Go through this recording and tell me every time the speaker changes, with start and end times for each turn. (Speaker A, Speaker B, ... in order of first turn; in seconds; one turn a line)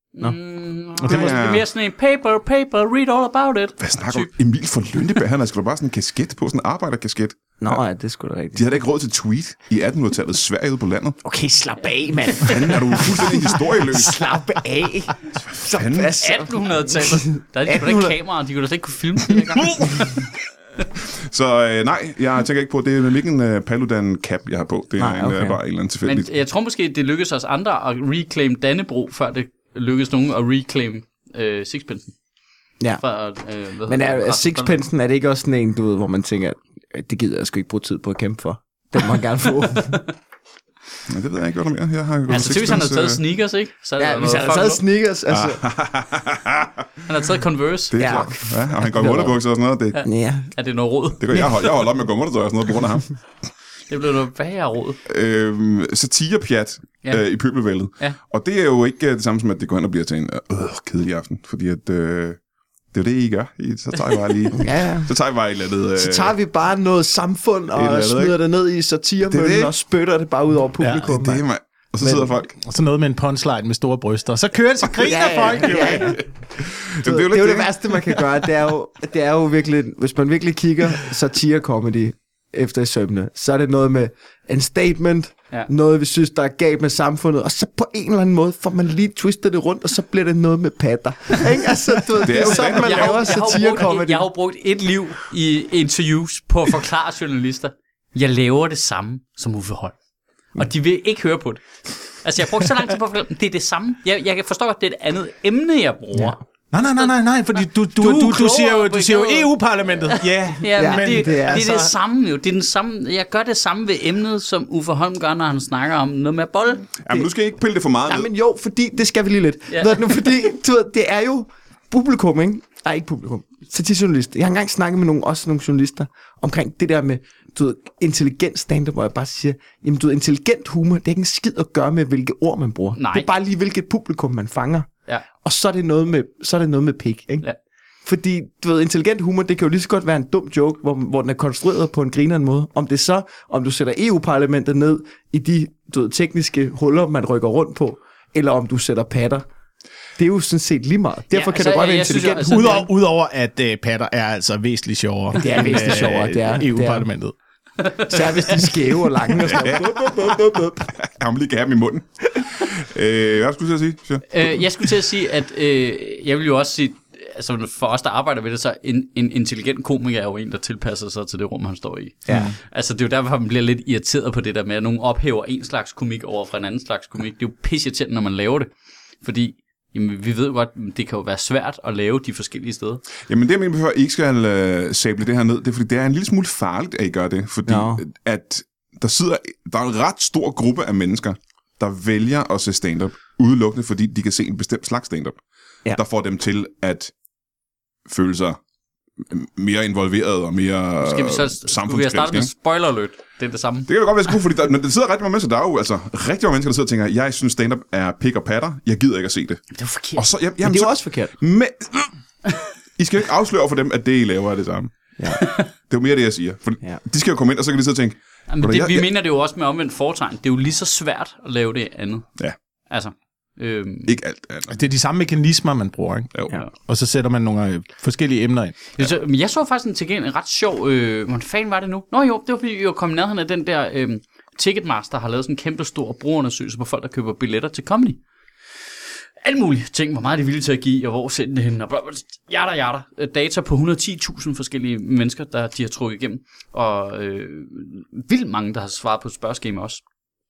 Speaker A: 0.1-4.3
Speaker B: 1.0-1.4
Speaker C: 1.0-1.6
Speaker C: 3.8-7.8
Speaker D: 7.6-8.6
Speaker C: 8.5-11.2
Speaker D: 11.2-18.1
Speaker C: 12.4-14.5
Speaker C: 15.3-16.1
Speaker A: 16.2-20.3
Speaker C: 21.2-26.3
Speaker D: 25.0-25.6
Speaker A: 26.0-32.1
Speaker A: 33.0-34.8
Speaker D: 33.9-40.1
Speaker C: 41.1-43.2
Speaker A: 42.3-44.8
Speaker D: 44.0-45.6
Speaker C: 45.3-46.7
Speaker A: 47.1-49.2
Speaker C: 47.9-50.0
Speaker D: 48.0-49.3
Speaker A: 49.9-51.7
Speaker D: 50.0-50.5
Speaker C: 51.2-53.1
Speaker A: 53.9-55.0
Speaker C: 55.0-62.4
Speaker C: 62.9-66.3
Speaker D: 64.5-65.1
Speaker D: 66.0-71.4
Speaker C: 67.7-68.3
Speaker C: 69.3-69.7
Speaker B: 70.8-71.1
Speaker C: 70.8-72.6
Speaker B: 72.6-76.2
Speaker D: 75.0-76.3
Speaker C: 75.8-78.1
Speaker D: 77.0-94.2
Speaker C: 92.2-93.6
Speaker A: 92.3-99.9
Speaker A: 100.5-101.6
Speaker A: 102.2-109.5
Speaker B: 106.7-111.9
Speaker A: 110.1-117.0
Speaker D: 110.8-111.9
Speaker C: 117.0-118.3
Speaker D: 118.1-134.9
Speaker A: 119.7-120.1
Speaker A: 133.0-133.3
Speaker D: 135.4-137.4
Speaker D: 138.0-149.4
Speaker D: 150.2-152.8
Speaker A: 151.3-152.9
Speaker B: 152.4-157.3
Speaker D: 155.4-157.1
Speaker A: 155.4-156.1
Speaker A: 157.8-158.7
Speaker D: 158.0-160.9
Speaker C: 159.4-160.3
Speaker C: 160.9-164.6
Speaker A: 164.3-178.7
Speaker D: 172.3-172.5
Speaker B: 172.3-172.5
Speaker A: 179.2-183.0
Speaker C: 183.2-195.4
Speaker D: 187.7-188.0
Speaker C: 195.9-197.1
Speaker C: 198.1-198.6
Speaker C: 199.2-202.5
Speaker A: 201.0-203.9
Speaker C: 203.9-209.6
Speaker A: 209.7-210.2
Speaker C: 210.1-212.1
Speaker D: 210.6-211.3
Speaker C: 213.0-219.1
Speaker A: 218.5-222.3
Speaker A: 222.9-224.1
Speaker C: 224.1-224.8
Speaker B: 224.7-228.8
Speaker A: 228.9-238.2
Speaker A: 239.4-250.0